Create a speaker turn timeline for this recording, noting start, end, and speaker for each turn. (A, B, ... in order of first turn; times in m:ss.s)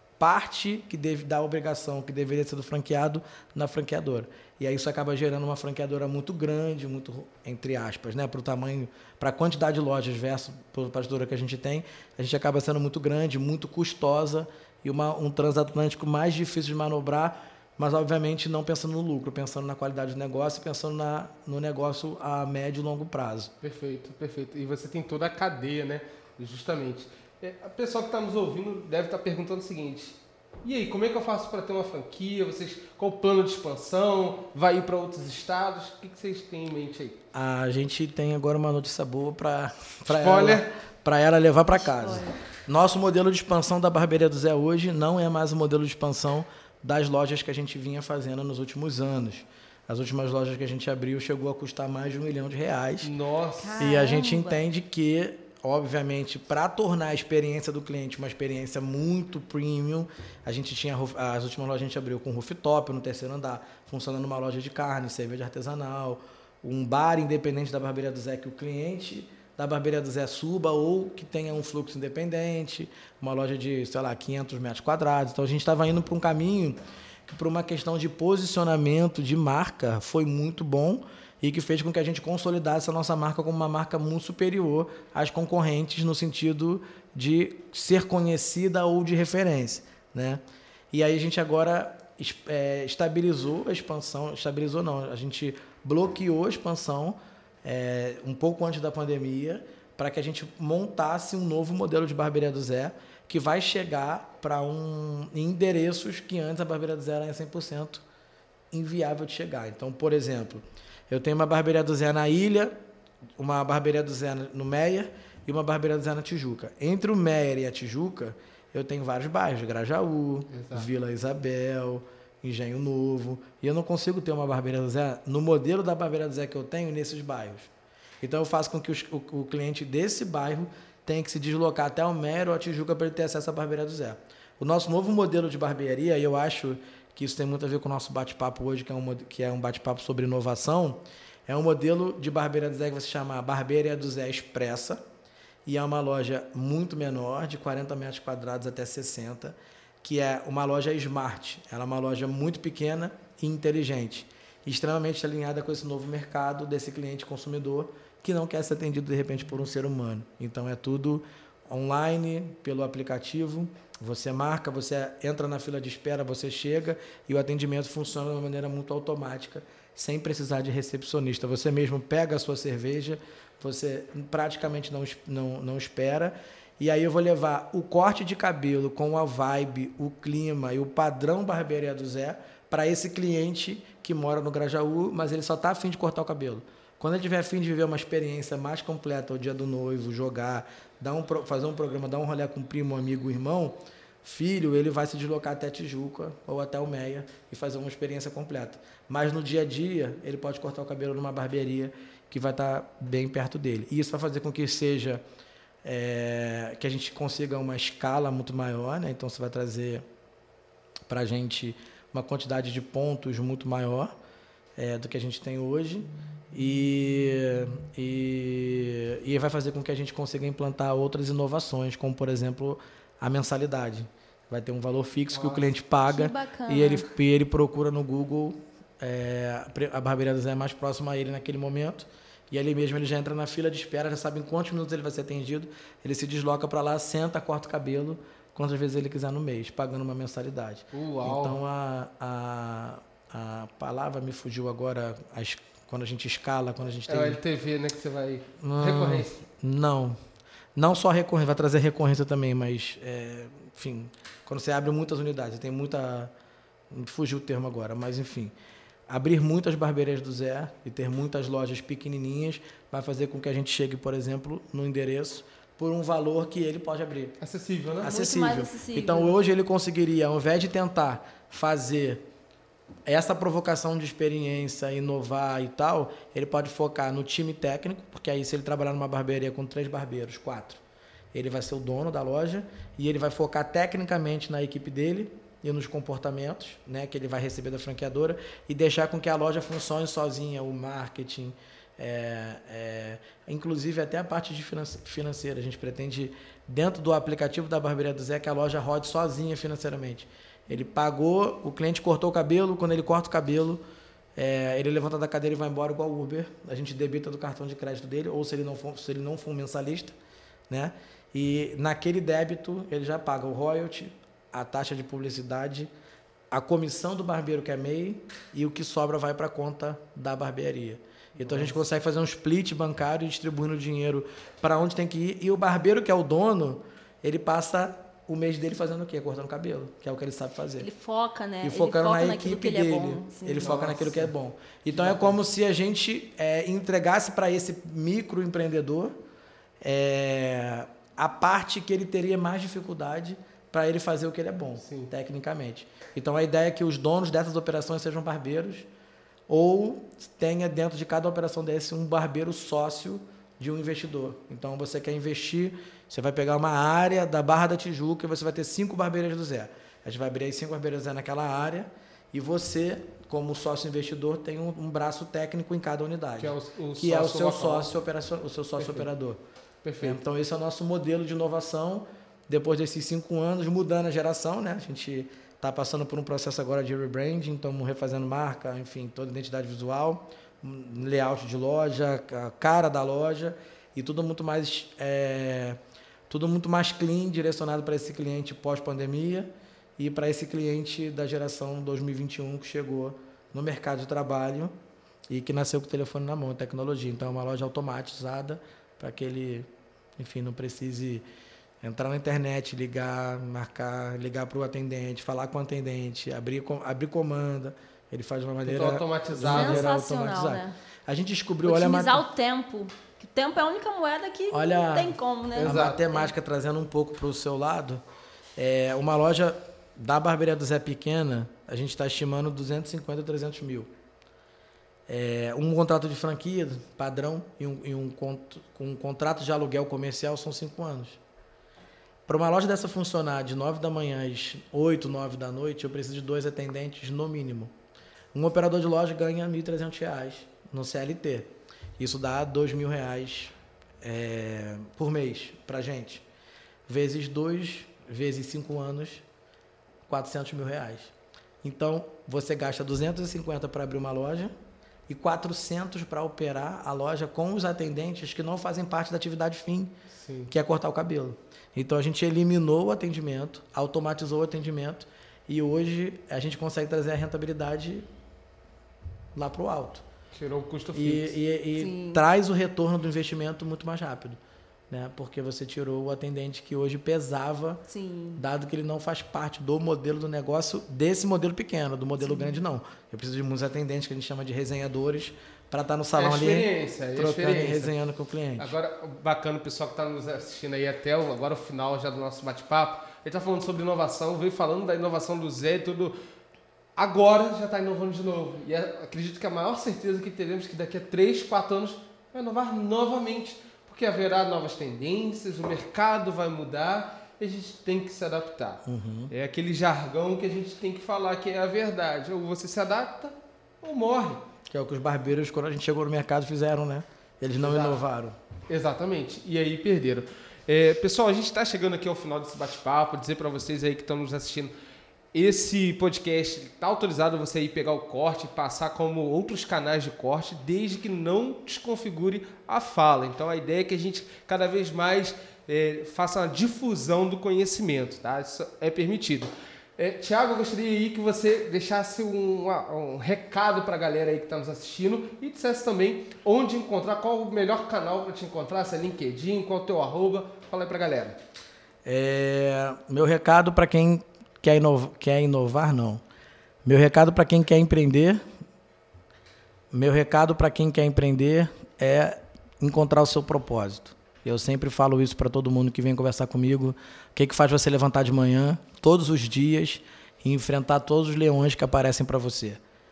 0:00.2-0:23.5 A
0:23.6-0:37.2 B
0:37.3-0:53.1 A
0:40.2-0:40.7 B
0:41.9-0:42.3 C
0:53.0-0:53.8 B
0:53.6-0:54.6 C
0:53.8-1:30.4 A
1:30.9-1:48.0 A
1:48.7-1:52.7 A
1:53.4-2:07.7 A
2:00.5-2:00.9 B
2:08.2-2:25.0 A
2:25.7-3:25.2 A
3:25.8-3:30.0 A
3:31.1-3:34.1 A
3:34.8-4:07.4 A
3:45.3-3:45.6 B
3:46.0-3:47.1 C
4:00.9-4:01.6 B
4:07.1-4:09.4 B
4:08.6-4:10.2 A
4:10.8-4:16.3 A
4:16.9-4:18.5 A
4:19.1-4:27.4 A
4:27.4-4:28.1 B
4:28.0-4:32.2 A
4:28.0-4:29.4 C
4:33.1-4:40.8 A
4:41.3-5:03.8 A
5:04.4-5:10.2 A
5:10.7-5:15.9 A
5:16.5-5:30.9 A
5:21.4-5:21.8 B
5:30.8-5:33.8 C
5:31.6-5:39.2 A
5:33.6-5:34.3 B
5:34.9-5:35.4 B
5:39.8-5:48.9 A
5:44.8-5:45.1 B
5:49.5-6:09.4 A
6:06.4-6:07.9 B
6:08.8-6:09.1 B
6:09.8-6:10.2 B
6:10.0-6:34.7 A
6:35.3-6:41.3 A
6:41.8-6:52.3 A
6:48.6-6:49.9 B
6:49.5-6:50.8 C
6:51.6-6:56.3 C
6:54.5-6:58.0 A
6:55.6-6:56.0 B
6:58.6-7:03.9 A
7:05.1-7:11.2 A
7:12.3-7:17.7 A
7:18.3-7:26.2 A
7:26.9-7:29.2 A
7:30.1-7:34.5 A
7:35.1-7:40.0 A
7:40.1-7:40.5 B
7:40.5-7:48.1 A
7:49.4-7:50.0 A
7:50.3-7:51.4 B
7:50.9-7:57.8 A
7:51.8-7:52.2 C
7:57.9-7:58.4 C
7:58.4-8:08.8 A
8:06.2-8:07.9 B
8:08.6-8:16.2 B
8:17.0-8:34.4 B
8:28.9-8:29.3 A
8:34.7-8:38.4 A
8:37.6-8:38.0 B
8:38.7-8:44.7 B
8:45.3-9:11.4 B
9:12.0-9:16.2 A
9:16.8-9:18.4 A
9:19.9-9:32.8 A